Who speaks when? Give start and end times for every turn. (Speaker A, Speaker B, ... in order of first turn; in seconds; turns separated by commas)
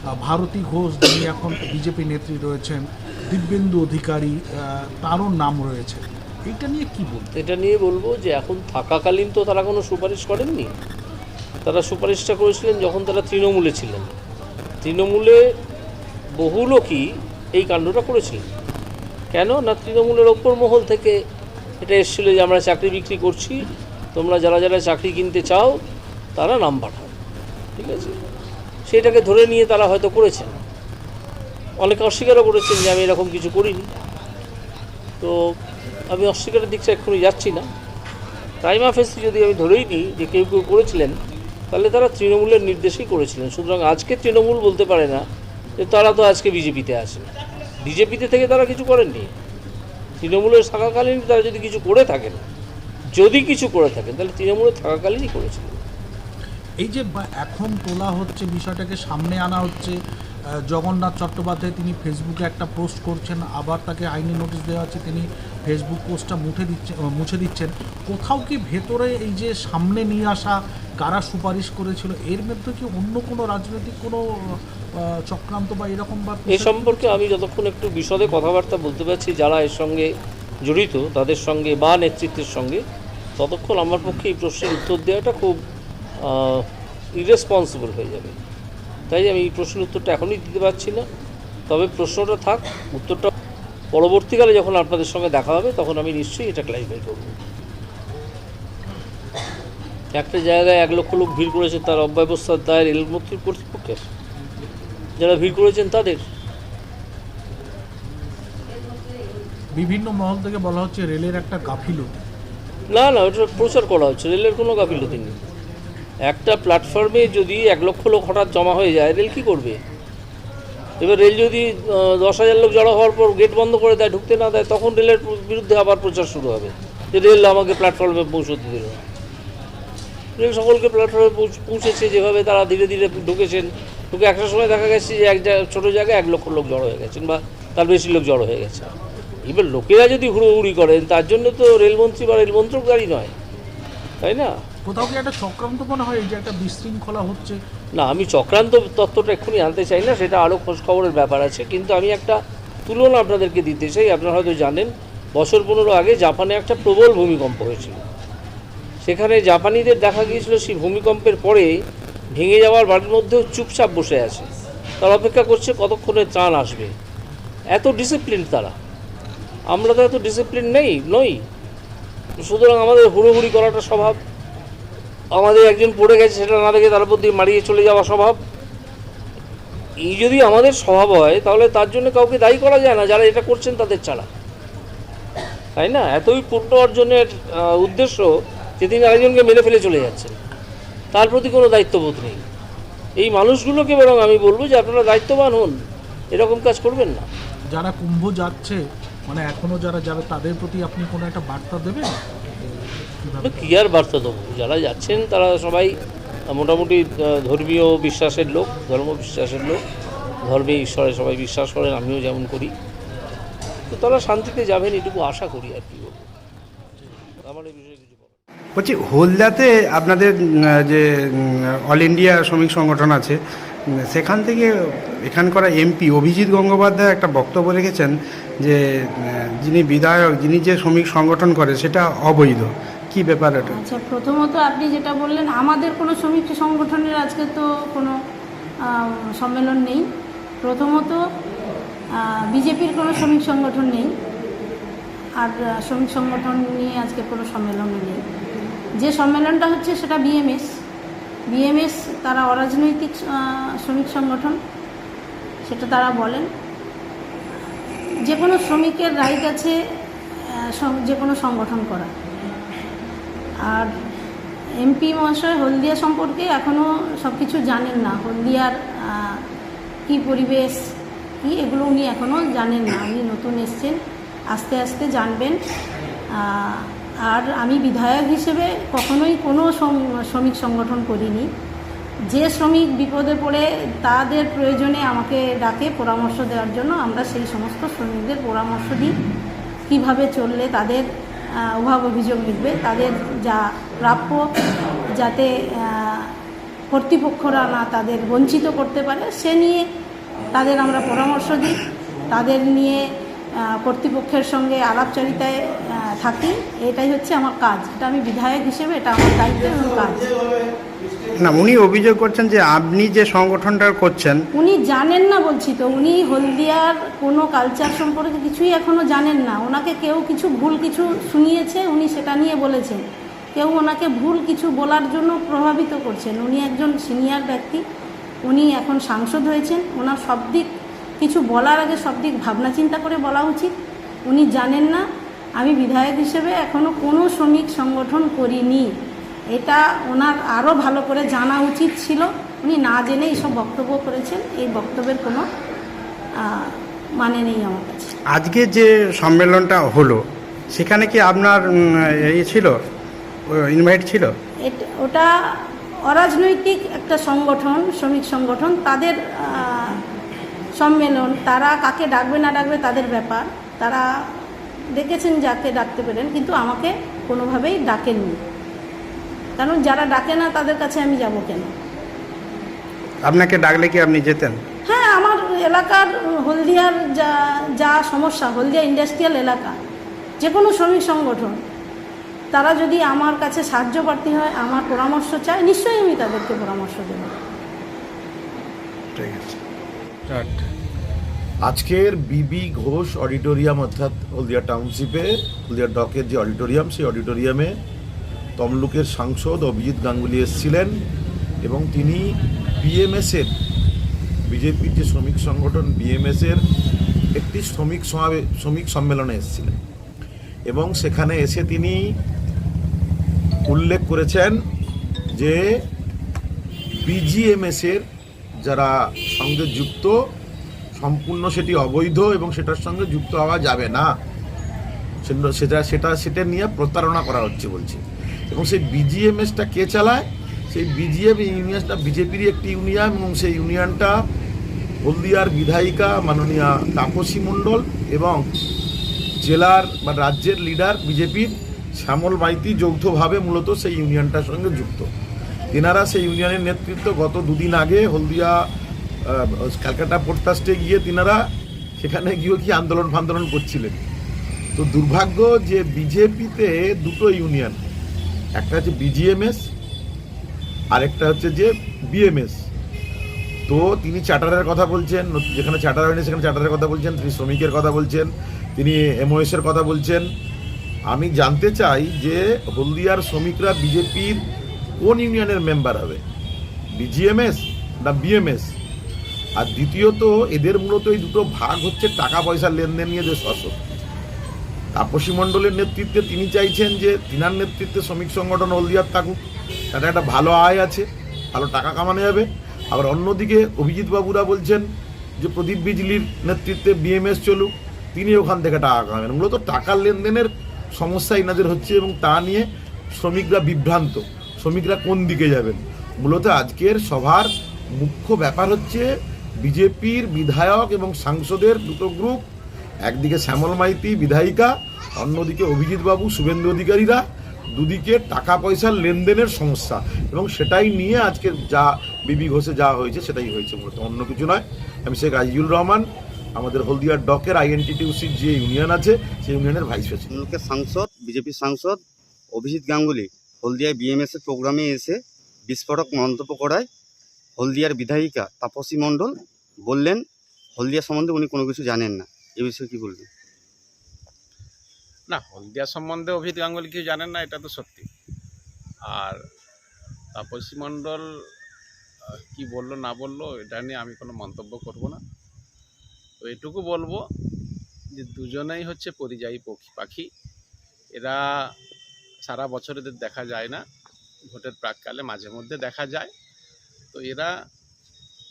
Speaker A: 0.2-7.3, Speaker B: 7.3-10.7, Speaker B: 11.7-14.2, Speaker B: 14.8-15.5, Speaker B: 16.4-18.4, Speaker B: 19.3-21.2, Speaker B: 21.8-23.6, Speaker B: 24.1-25.8, Speaker B: 26.4-27.1, Speaker B: 27.8-28.2, Speaker B: 28.9-30.6, Speaker B: 31.8-33.9, Speaker B: 35.2-35.5, Speaker B: 36.1-37.7, Speaker B: 38.6-41.1, Speaker B: 41.7-45.2, Speaker B: 45.8-47.3, Speaker B: 47.8-49.3, Speaker B: 50.2-52.4, Speaker B: 53.2-55.8, Speaker A: 56.8-60.0, Speaker A: 60.7-77.2, Speaker B: 76.5-80.1, Speaker B: 80.7-82.8, Speaker B: 83.4-85.6, Speaker B: 86.2-88.4, Speaker B: 89.1-91.1, Speaker B: 91.7-93.3, Speaker B: 93.9-97.4, Speaker B: 100.2-104.1, Speaker B: 105.2-106.2, Speaker A: 109.8-112.2, Speaker B: 112.9-115.4, Speaker B: 116.3-119.8, Speaker B: 121.0-129.0, Speaker B: 130.4-138.9, Speaker B: 139.5-143.3, Speaker B: 144.2-144.6, Speaker A: 144.9-147.6, Speaker B: 148.0-158.0, Speaker B: 159.1-161.7, Speaker B: 162.4-164.5, Speaker B: 165.0-166.9, Speaker B: 167.7-168.8, Speaker B: 169.7-171.4, Speaker B: 172.4-174.2, Speaker B: 175.4-178.4, Speaker B: 180.0-184.3, Speaker B: 185.8-188.3, Speaker B: 188.8-190.4, Speaker B: 191.1-192.4, Speaker B: 193.2-195.8, Speaker B: 196.3-197.3, Speaker A: 197.7-202.2, Speaker A: 203.2-203.7, Speaker B: 203.4-205.9, Speaker B: 206.5-209.8, Speaker B: 210.4-212.7, Speaker B: 213.9-216.3, Speaker B: 217.4-218.4, Speaker C: 218.8-223.4, Speaker C: 224.0-233.8, Speaker D: 233.7-238.2, Speaker D: 238.9-240.1, Speaker D: 240.6-241.2, Speaker D: 242.2-244.1, Speaker D: 245.4-248.2, Speaker D: 249.0-250.7, Speaker D: 251.5-254.6, Speaker D: 255.7-256.5, Speaker D: 258.2-259.8, Speaker D: 260.4-262.1, Speaker D: 263.6-263.9, Speaker D: 264.8-269.4, Speaker D: 270.1-270.9, Speaker D: 271.4-274.0, Speaker D: 274.5-275.6, Speaker D: 276.4-281.5, Speaker D: 282.3-289.1, Speaker D: 289.9-291.1, Speaker D: 291.6-294.5, Speaker D: 295.1-296.3, Speaker D: 296.9-299.9, Speaker D: 300.5-303.0, Speaker D: 303.6-310.3, Speaker C: 311.4-314.4, Speaker D: 314.5-323.0, Speaker D: 323.6-327.8, Speaker D: 328.5-330.7, Speaker D: 331.2-333.7, Speaker D: 334.3-335.1, Speaker D: 335.6-338.9, Speaker D: 339.5-345.5, Speaker D: 346.4-348.1, Speaker C: 348.3-350.2, Speaker C: 350.7-352.8, Speaker C: 353.5-354.3, Speaker D: 354.7-360.0, Speaker D: 360.8-364.1, Speaker D: 364.9-368.4, Speaker D: 369.6-371.7, Speaker C: 373.3-374.6, Speaker D: 374.9-379.8, Speaker D: 380.4-381.6, Speaker D: 382.5-387.3, Speaker C: 389.2-389.6, Speaker C: 390.3-390.6, Speaker E: 391.6-397.8, Speaker E: 398.6-401.0, Speaker E: 401.6-403.5, Speaker E: 404.5-406.6, Speaker E: 407.4-409.8, Speaker E: 410.7-412.0, Speaker E: 413.6-414.6, Speaker E: 415.3-415.6, Speaker E: 417.0-418.1, Speaker E: 418.6-420.1, Speaker E: 421.0-424.1, Speaker E: 425.2-434.2, Speaker E: 435.1-438.5, Speaker E: 439.4-445.1, Speaker E: 445.7-448.6, Speaker E: 449.3-451.4, Speaker E: 452.0-454.0, Speaker E: 454.8-457.8, Speaker E: 458.6-459.6, Speaker E: 460.9-462.6, Speaker E: 463.7-470.3, Speaker E: 471.1-474.4, Speaker E: 475.0-476.2, Speaker E: 476.9-478.7, Speaker E: 479.6-483.8, Speaker E: 485.0-489.4, Speaker E: 489.9-494.9, Speaker E: 495.4-509.1, Speaker E: 509.6-512.5, Speaker E: 513.1-517.2, Speaker E: 517.8-530.4, Speaker F: 530.3-532.0, Speaker F: 532.5-536.9, Speaker F: 537.6-539.4, Speaker F: 539.9-540.2, Speaker F: 540.8-543.3, Speaker G: 545.3-548.1, Speaker G: 549.1-549.4, Speaker G: 550.4-551.3, Speaker G: 552.3-555.2, Speaker G: 556.4-557.2, Speaker G: 558.2-560.3, Speaker G: 561.2-561.4, Speaker G: 562.5-563.8, Speaker G: 564.5-566.3, Speaker G: 567.1-567.5